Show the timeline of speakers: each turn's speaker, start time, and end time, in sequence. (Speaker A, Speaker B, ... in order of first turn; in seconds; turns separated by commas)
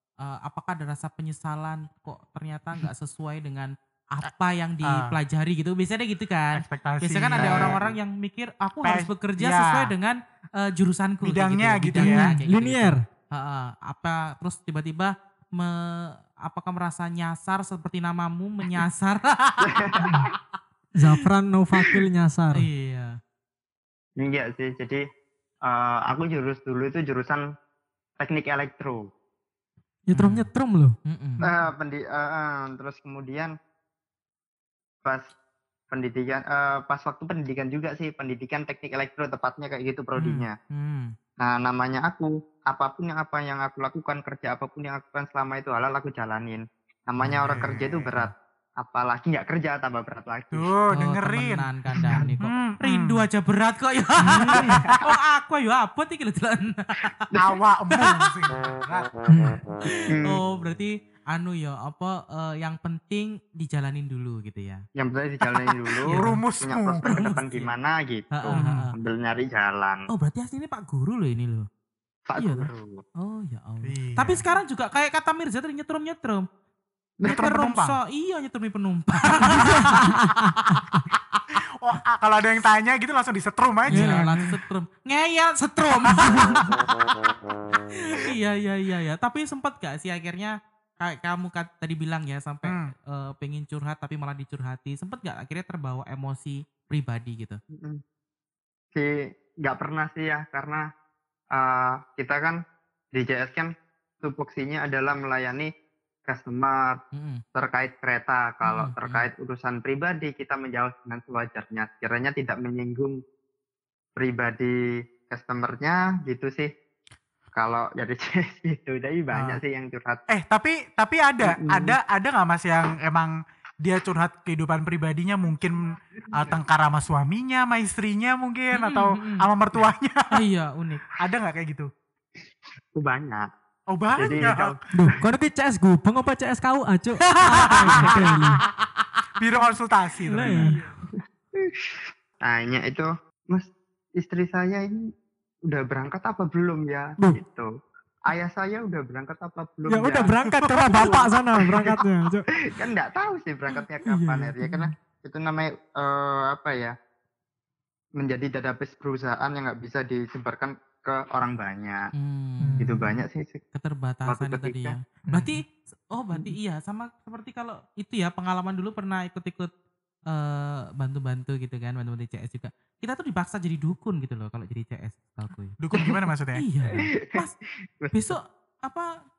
Speaker A: 0.2-20.1, Speaker B: 4.8-5.1, Speaker B: 6.5-7.8, Speaker C: 7.4-8.0, Speaker B: 8.8-9.9, Speaker B: 11.2-12.3, Speaker D: 11.9-13.0, Speaker C: 19.6-20.3, Speaker D: 21.0-22.7, Speaker A: 22.5-23.1, Speaker C: 24.2-25.0, Speaker C: 25.6-27.4, Speaker C: 28.2-29.1, Speaker D: 30.1-30.9, Speaker A: 30.1-30.5, Speaker A: 31.0-31.5, Speaker C: 31.4-33.5, Speaker C: 35.0-35.3, Speaker C: 35.9-40.5, Speaker A: 40.2-41.1, Speaker C: 41.4-50.7, Speaker B: 47.4-48.3, Speaker B: 50.5-51.7, Speaker A: 50.9-57.2, Speaker B: 52.4-53.2, Speaker D: 54.3-54.9, Speaker C: 54.5-55.0, Speaker B: 54.7-54.9, Speaker B: 57.3-59.1, Speaker D: 59.3-59.6, Speaker A: 59.8-64.8, Speaker C: 60.1-60.4, Speaker C: 65.0-70.1, Speaker B: 66.1-67.1, Speaker A: 67.1-67.7, Speaker A: 68.3-68.9, Speaker B: 68.5-68.8, Speaker A: 70.1-71.7, Speaker C: 72.3-73.0, Speaker A: 72.4-76.5, Speaker B: 73.8-74.4, Speaker C: 77.2-77.5, Speaker A: 77.2-80.8, Speaker B: 77.2-78.0, Speaker B: 79.4-80.0, Speaker D: 79.7-80.0, Speaker B: 81.8-84.2, Speaker A: 83.9-86.6, Speaker D: 83.9-84.4, Speaker B: 86.1-86.5, Speaker A: 88.1-97.6, Speaker B: 92.6-92.9, Speaker C: 98.9-100.8, Speaker C: 101.5-102.6, Speaker C: 103.1-103.7, Speaker C: 104.2-105.7, Speaker C: 106.3-107.0, Speaker A: 107.1-107.4, Speaker C: 107.5-113.2, Speaker A: 108.6-109.2, Speaker C: 114.2-116.7, Speaker C: 117.5-120.2, Speaker B: 120.3-130.3, Speaker C: 121.4-122.0, Speaker C: 126.2-126.5, Speaker A: 128.7-129.4, Speaker A: 130.3-131.0, Speaker B: 131.2-131.9, Speaker C: 132.9-133.5, Speaker B: 133.9-134.7, Speaker C: 134.2-135.1, Speaker D: 134.9-138.6, Speaker B: 137.5-138.4, Speaker B: 139.4-140.7, Speaker D: 140.3-140.7, Speaker A: 140.5-140.9, Speaker C: 141.6-145.0, Speaker C: 145.7-147.7, Speaker C: 148.2-150.3, Speaker D: 149.9-152.5, Speaker B: 150.5-151.2, Speaker C: 150.9-152.0, Speaker C: 152.7-156.9, Speaker D: 154.0-154.9, Speaker C: 158.2-162.1, Speaker A: 162.2-162.8, Speaker D: 162.6-163.2, Speaker C: 162.8-163.6, Speaker A: 163.7-169.7, Speaker C: 164.2-165.0, Speaker D: 165.3-165.6, Speaker A: 170.3-175.7, Speaker B: 175.8-176.6, Speaker A: 176.5-177.5, Speaker C: 176.9-177.4, Speaker C: 178.0-178.4, Speaker A: 178.1-179.1